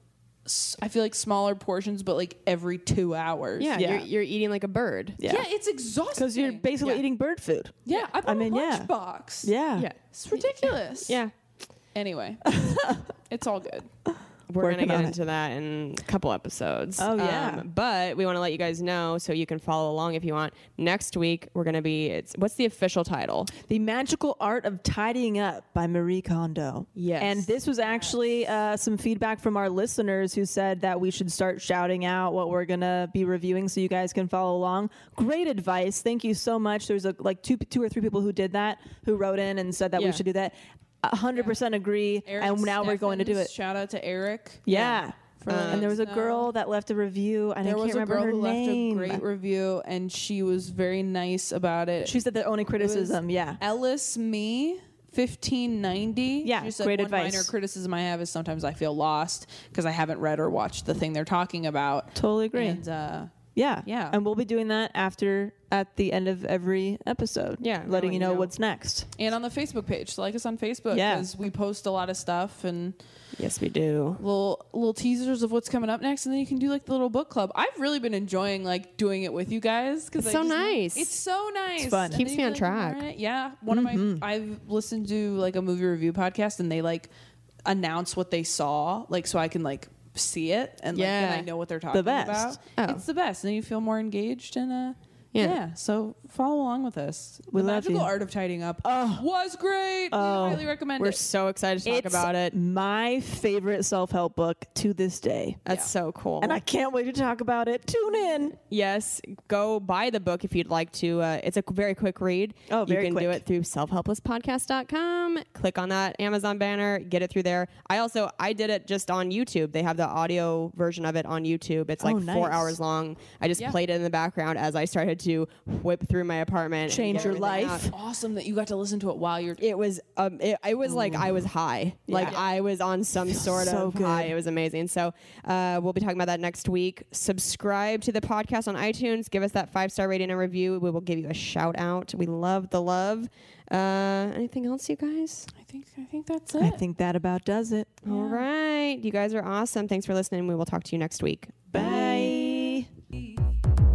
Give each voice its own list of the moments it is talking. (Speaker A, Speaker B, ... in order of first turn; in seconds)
Speaker A: 0.5-3.8, 5.3-6.7, 7.9-11.2, 11.9-13.9, 27.9-28.2, 41.3-41.6, 42.2-46.5, 47.6-52.2, 52.8-63.3, 63.9-64.2, 69.2-73.0, 74.2-87.1, 87.7-101.2, 105.7-105.9, 127.0-129.6, 132.1-132.5, 145.6-146.8, 148.1-148.4, 151.8-152.5
Speaker B: 3.6-5.2, 9.8-11.3, 14.5-23.5, 26.9-27.5, 40.0-40.2, 45.5-45.9, 67.6-68.5, 73.4-74.2, 80.2-81.1, 82.1-83.0, 90.9-91.5, 92.8-93.0, 95.3-95.6, 101.0-102.6, 105.7-106.6, 108.6-127.9, 129.6-145.5, 148.1-152.0
Speaker C: 3.8-4.1, 5.2-5.5, 6.2-8.9, 9.4-9.9, 12.6-13.0, 14.6-15.2, 17.0-17.6, 23.6-43.5, 44.7-49.2, 52.0-53.6, 56.4-57.5, 62.1-62.8, 63.5-69.1, 70.9-71.3, 81.8-82.2, 83.7-84.2, 91.9-92.6, 97.5-98.1, 98.8-99.2, 100.1-100.7, 101.8-105.6, 106.4-108.6, 112.7-113.4, 122.0-122.8, 126.9-127.9, 130.9-131.4, 132.1-132.4, 133.3-134.3, 146.6-147.9, 151.7-152.9